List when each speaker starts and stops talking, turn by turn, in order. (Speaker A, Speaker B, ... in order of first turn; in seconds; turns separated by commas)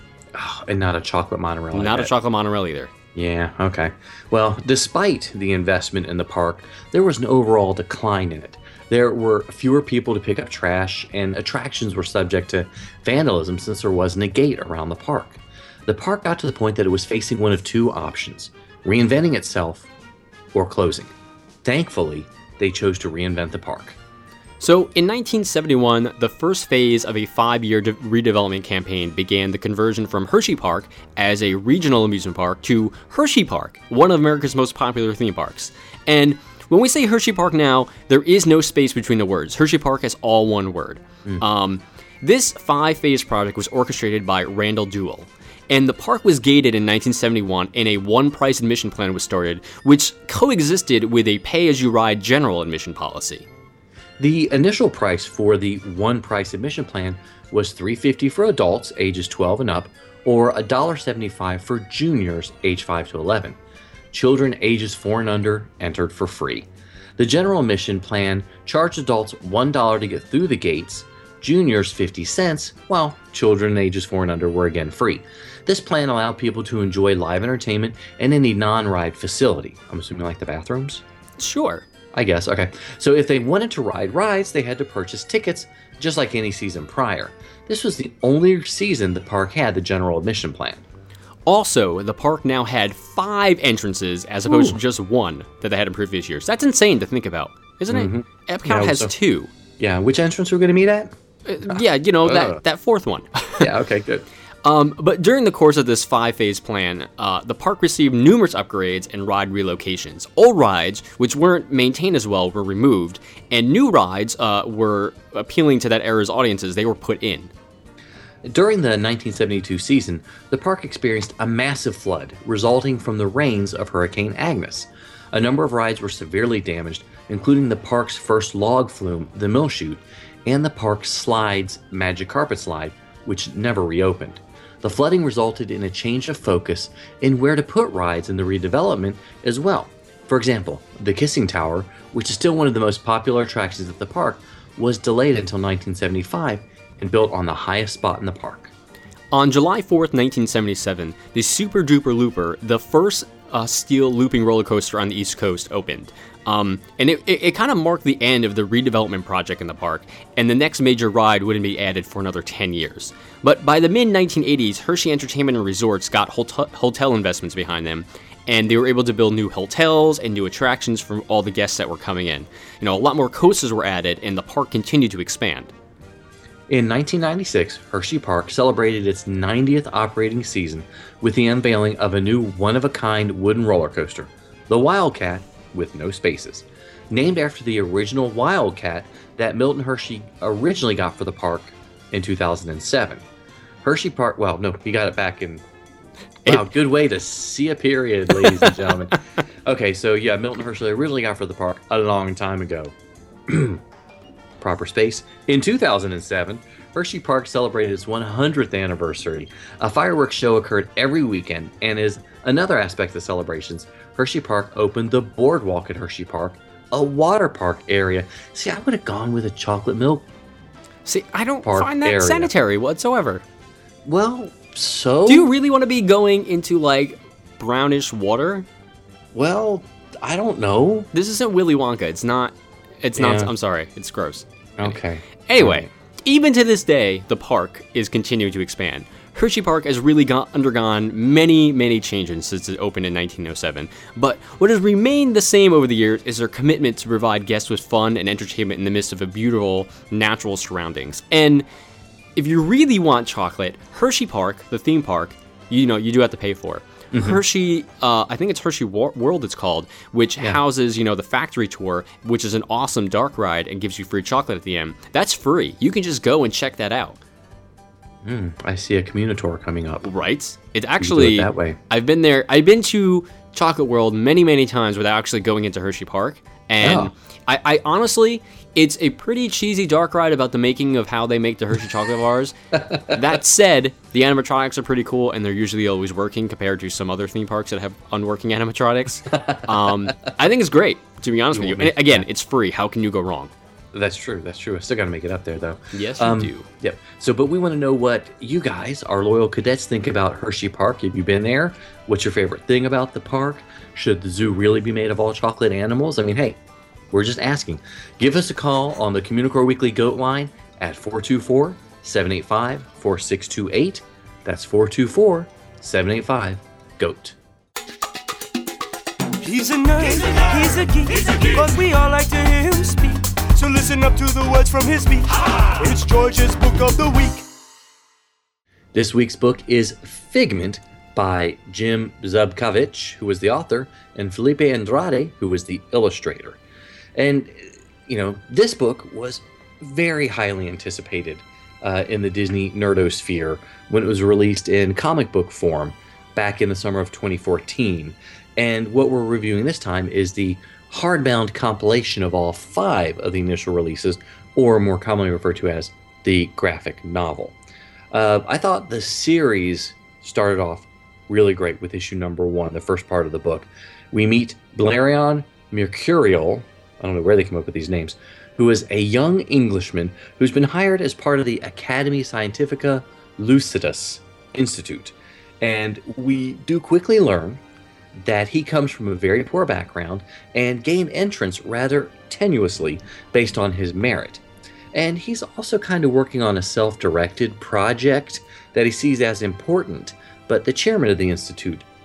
Speaker A: 0.3-2.1, Speaker B: 1.7-2.9, Speaker A: 3.1-19.9, Speaker A: 20.5-21.1, Speaker A: 21.6-24.0, Speaker B: 24.6-53.5, Speaker A: 54.2-63.6, Speaker A: 64.1-81.0, Speaker B: 81.4-81.9, Speaker A: 82.1-90.8, Speaker B: 91.5-99.5, Speaker A: 94.5-94.8, Speaker A: 97.9-99.1, Speaker A: 99.8-102.6, Speaker B: 101.5-103.7, Speaker A: 103.6-104.2, Speaker B: 104.6-117.5, Speaker A: 118.5-148.7, Speaker B: 149.3-175.7, Speaker A: 176.7-193.2, Speaker A: 193.8-195.6, Speaker A: 196.5-202.9, Speaker B: 198.4-198.7, Speaker A: 203.5-203.8, Speaker A: 204.6-220.3, Speaker B: 221.1-223.4, Speaker A: 221.6-222.5, Speaker A: 224.1-225.5, Speaker B: 225.3-228.7, Speaker A: 229.3-231.1, Speaker B: 231.1-235.0, Speaker A: 233.2-233.5, Speaker A: 234.8-235.9, Speaker B: 235.5-251.7, Speaker B: 252.4-267.2, Speaker A: 257.1-257.4, Speaker A: 268.2-270.1, Speaker B: 270.0-293.5, Speaker A: 271.0-271.8, Speaker A: 276.8-277.1, Speaker A: 282.8-283.1, Speaker A: 289.3-290.3, Speaker A: 291.5-292.3, Speaker A: 293.9-306.6, Speaker B: 295.9-296.7, Speaker A: 307.1-317.4, Speaker C: 319.4-327.4, Speaker A: 328.9-336.6, Speaker A: 337.2-357.6, Speaker A: 358.1-377.6, Speaker A: 378.2-384.4, Speaker A: 384.9-391.9